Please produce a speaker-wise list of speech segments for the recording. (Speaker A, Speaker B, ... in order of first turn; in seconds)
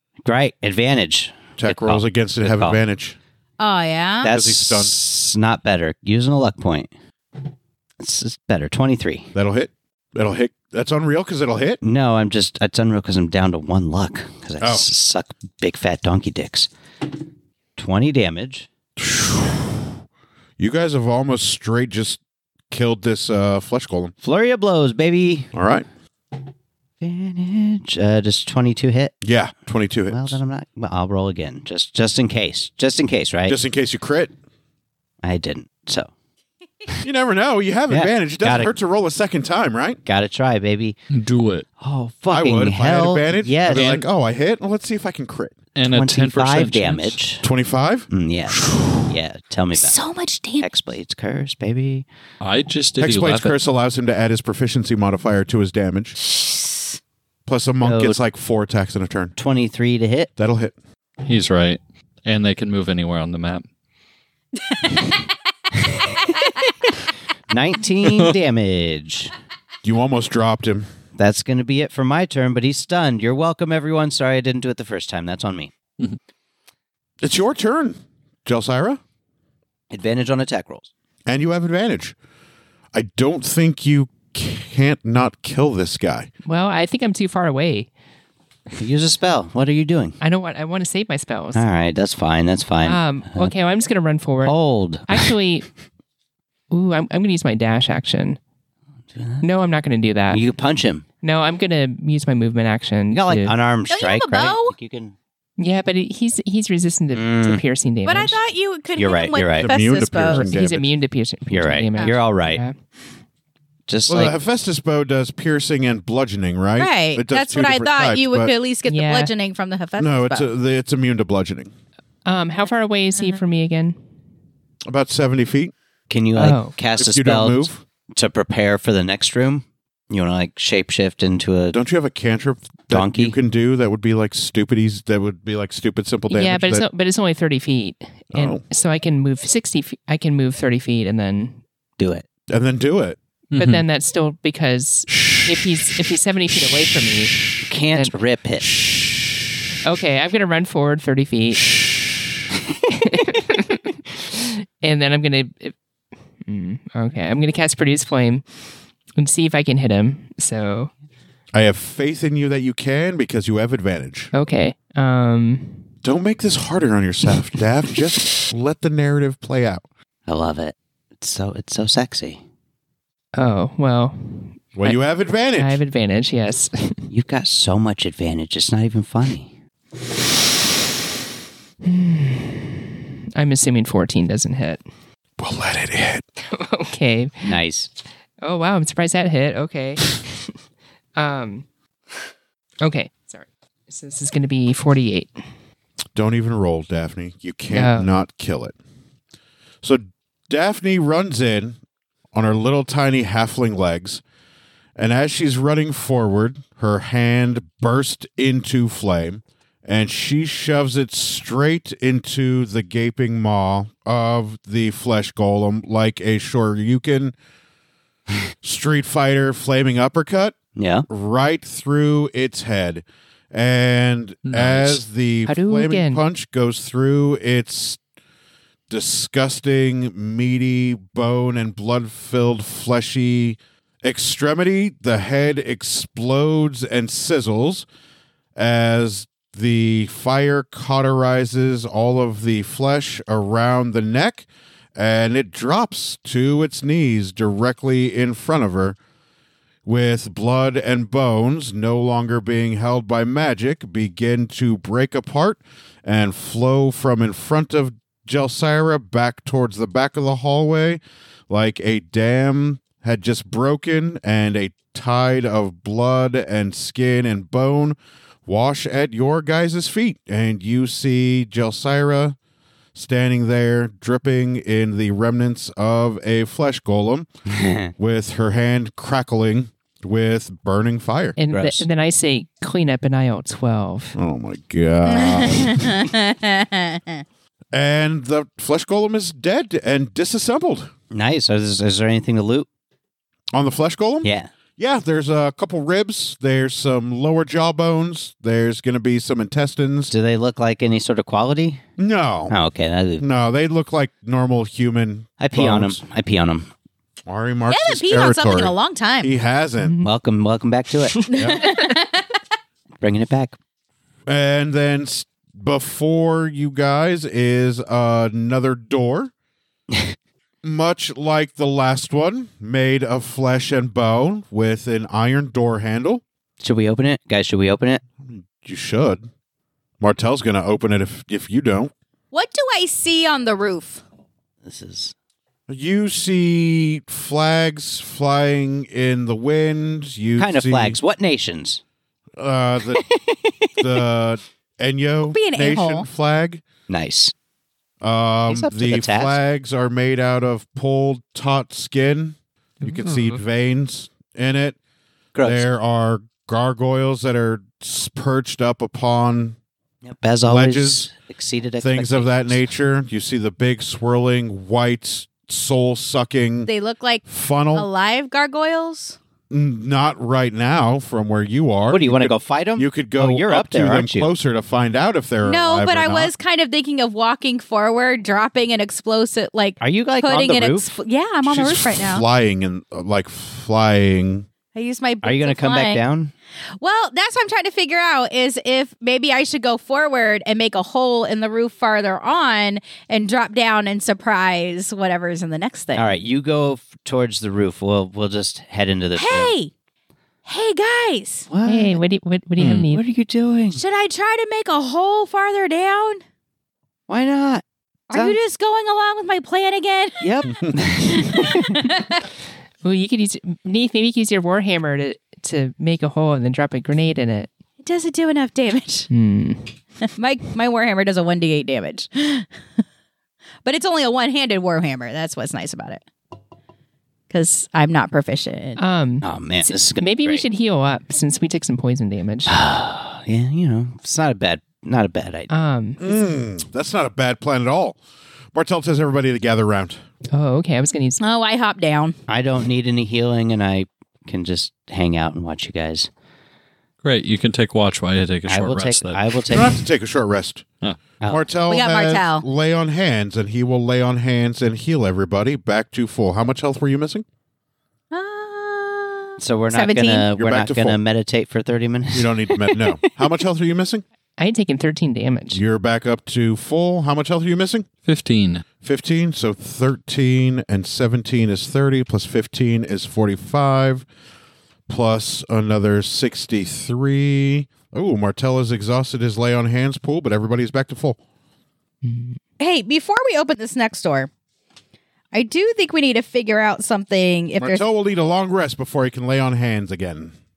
Speaker A: 0.2-2.8, 4.2-6.9, 8.0-9.3, 11.8-16.7, 17.8-18.7, 24.2-25.5, 27.0-29.1, 30.1-33.6, 35.2-36.1, 37.9-38.7, 40.1-41.0, 41.8-44.0, 45.9-47.5, 48.1-50.0, 50.6-52.1, 57.8-58.2, 59.4-60.3, 67.5-69.3, 71.2-75.7, 79.9-80.9, 88.8-90.2, 91.5-93.5, 94.4-95.3, 99.1-99.5, 100.3-101.0, 103.1-105.2, 107.1-107.6, 109.0-109.7, 111.5-112.6, 113.9-114.3, 126.1-131.8, 132.9-133.4, 142.0-142.2, 147.6-148.7, 170.3-172.4, 177.1-179.5, 187.4-187.9, 220.8-221.1, 277.5-277.9, 281.5-281.9, 291.1-292.7, 294.2-294.5, 300.1-301.8, 302.5-303.3, 305.4-306.7, 310.0-311.4, 313.0-313.6, 326.6-328.0, 334.6-335.1, 340.4-341.8, 346.9-347.3, 348.5-349.4, 355.4-355.7, 360.0-362.6, 371.9-374.3, 379.8-380.9, 385.2-386.3, 396.0-399.5, 401.5-402.0, 402.6-403.8, 407.1-408.4, 410.2-411.8, 429.2-430.4, 432.5-435.5, 442.3-446.1, 448.5-449.8, 459.4-462.9
Speaker B: 1.6-3.2, 4.3-5.0, 9.3-11.8, 14.6-14.9, 19.0-19.9, 20.6-24.1, 25.5-25.9, 29.2-30.4, 33.5-34.3, 37.0-40.0, 42.3-45.6, 47.4-49.0, 53.0-56.2, 57.5-59.4, 60.4-60.8, 69.8-70.9, 77.2-79.0, 81.3-82.2, 82.9-86.3, 109.6-110.9, 114.1-118.5, 120.0-121.7, 124.9-125.7, 127.0-127.8, 131.7-136.9, 138.3-138.6, 142.5-143.2, 161.5-164.3, 166.0-169.9, 174.8-175.8, 185.4-186.2, 196.2-198.8, 199.8-201.8, 202.3-204.2, 205.0-217.3, 218.6-220.6, 221.1-228.0, 228.9-237.9, 238.6-249.0, 249.8-272.4, 272.9-277.3, 278.0-281.4, 284.1-286.0, 287.7-290.9, 293.5-300.1, 302.0-302.6, 303.2-306.0, 307.3-310.0, 311.4-311.7, 314.3-319.3, 320.6-326.2, 328.2-329.3, 330.0-331.9, 335.7-341.0, 342.4-343.0, 343.8-346.6, 348.0-354.8, 355.4-359.6, 360.5-361.1, 361.8-366.7, 367.3-367.9, 369.5-376.3, 381.5-384.5, 436.0-438.0, 438.5-440.0, 449.5-450.7, 451.2-457.2, 460.4-461.0, 462.1-464.0, 465.5-467.9, 468.8-474.1, 474.9-481.2, 487.6-490.3
Speaker C: 3.6-4.3, 49.7-50.7, 56.4-56.8, 66.3-66.6, 103.9-104.8, 108.0-110.5, 116.8-120.5, 285.1-287.2, 307.7-309.3, 311.3-312.3, 332.3-334.0, 345.3-346.1, 366.7-369.2, 375.4-382.2, 384.7-386.0, 386.8-396.1, 399.2-399.7, 400.5-401.5, 403.7-406.2, 408.1-410.3, 411.1-412.2, 417.8-419.1, 420.1-422.5, 423.6-426.1, 427.3-428.8, 441.2-442.1, 451.7-452.5, 458.1-460.3, 482.6-484.3, 485.3-487.8
Speaker D: 41.1-41.7, 43.7-44.0, 45.8-47.2, 52.4-53.5, 61.2-63.6, 143.5-143.8, 224.5-225.0, 447.0-449.4, 468.0-468.6
Speaker E: 86.5-87.9, 90.2-91.6, 92.8-94.5, 95.1-95.7, 96.7-98.4, 99.4-100.4, 101.2-103.5, 105.6-108.4, 110.3-112.8, 118.9-119.3, 122.2-124.0, 126.4-126.8, 136.3-141.6, 143.6-148.1, 149.8-151.8, 152.9-155.8, 156.4-158.5, 159.2-160.9, 164.3-165.9, 173.3-175.0, 175.6-177.0, 181.8-184.8, 186.4-187.6, 188.4-190.3, 191.2-191.7, 192.8-195.4, 197.7-198.1, 225.5-226.2, 281.4-284.2, 309.8-310.1, 401.7-403.0, 412.8-417.5, 419.1-419.7, 428.8-432.6, 435.5-436.1, 440.3-441.2, 464.4-465.6, 482.0-482.4